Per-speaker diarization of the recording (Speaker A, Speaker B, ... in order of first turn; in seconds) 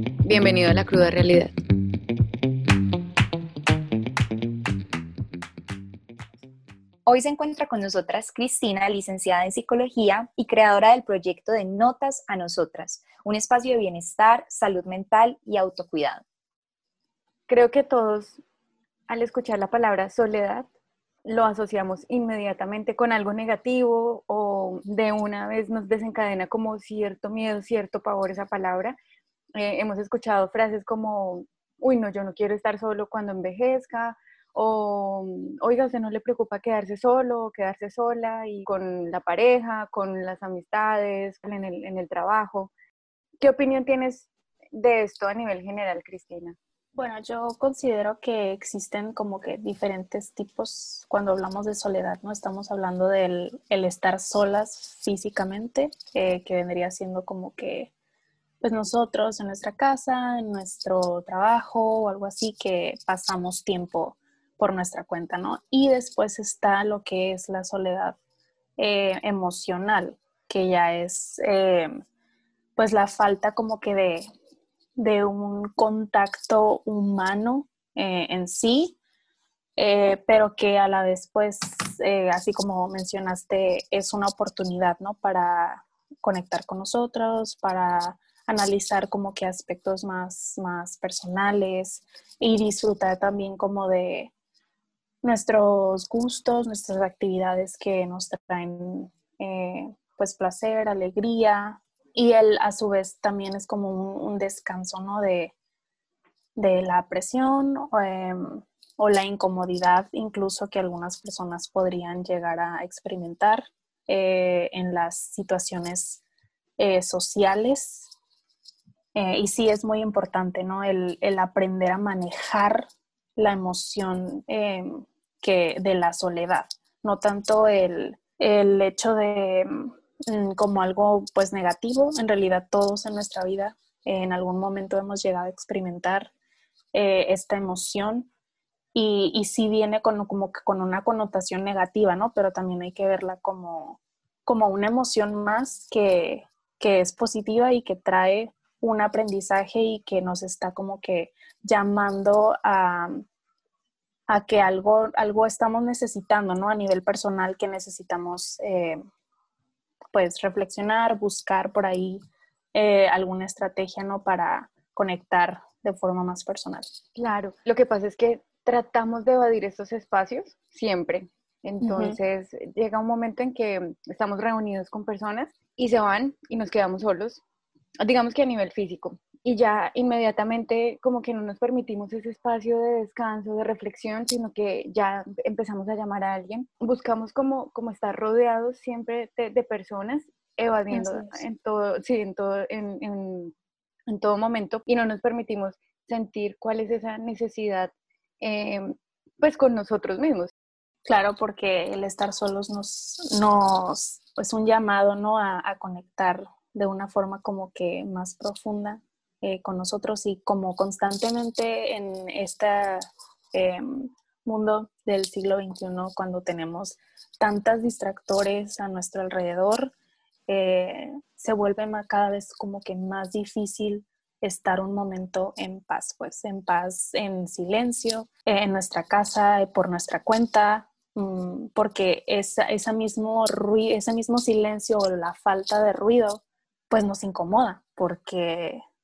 Speaker A: 0.2-1.5, 17.5-18.4, 19.1-20.7, 21.2-28.9, 29.5-42.7, 43.4-46.6, 167.2-177.4, 178.0-193.5, 194.1-200.5
Speaker B: 7.0-16.2
Speaker C: 47.0-57.9, 58.6-68.2, 68.8-71.9, 72.8-74.2, 75.0-79.0, 79.8-94.3, 95.2-105.5, 106.5-116.2, 116.8-118.1, 119.1-136.3, 136.9-138.3, 138.9-153.2, 154.3-159.0, 160.1-162.2, 162.7-166.8, 171.8-172.2, 190.9-191.4, 201.0-219.9, 220.5-238.8